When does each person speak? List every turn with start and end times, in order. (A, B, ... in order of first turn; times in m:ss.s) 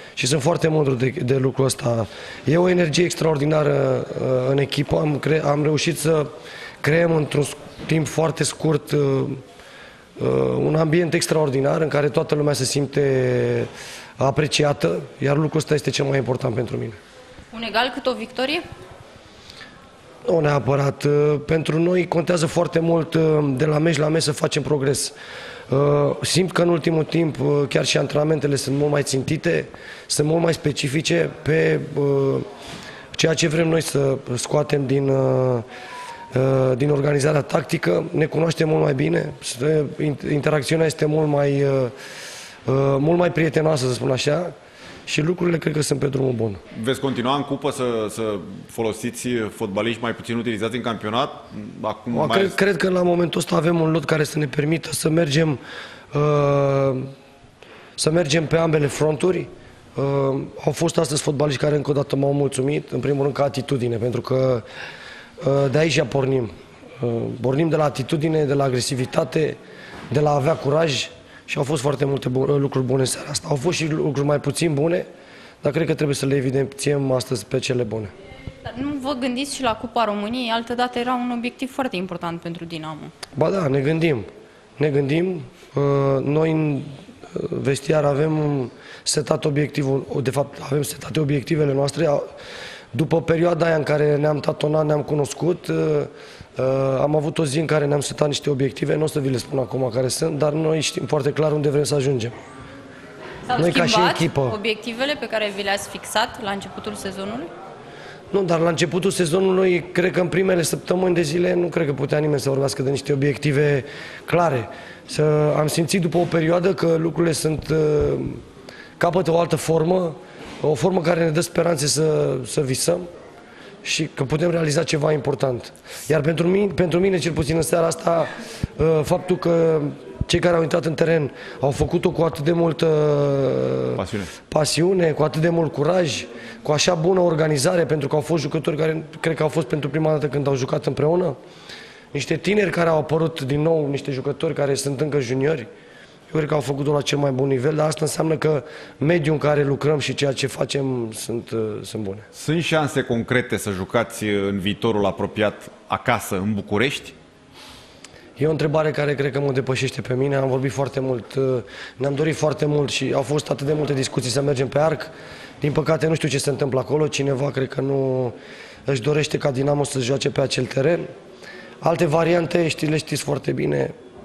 0:00.2-0:06.3 A
0:06.8-0:09.4 A
0:10.2-0:17.0 A
0:17.5-0:18.6 B
0:20.2-0:25.1 A
0:25.7-0:32.5 A
0:33.1-0:35.7 A
0:36.3-0:41.9 A
0:42.7-0:44.6 A
0:45.1-0:46.6 A
0:46.7-0:52.6 C
0:52.1-0:55.6 A
0:56.1-0:57.1 A
0:58.0-1:04.7 A
1:05.4-1:09.6 A
1:10.1-1:15.1 A
1:15.6-1:18.1 A
1:18.6-1:23.1 B
1:23.4-1:32.3 A
1:32.9-1:42.4 A
1:43.5-1:47.5 B
1:43.5-1:44.6 A
1:48.3-1:58.4 A
1:59.0-2:03.1 A
2:03.8-2:21.4 A
2:14.0-2:14.3 C
2:22.1-2:25.7 A
2:26.3-2:32.3 A
2:32.3-2:37.2 C
2:38.4-2:48.4 A
2:48.9-2:51.1 A
2:51.8-2:53.9 A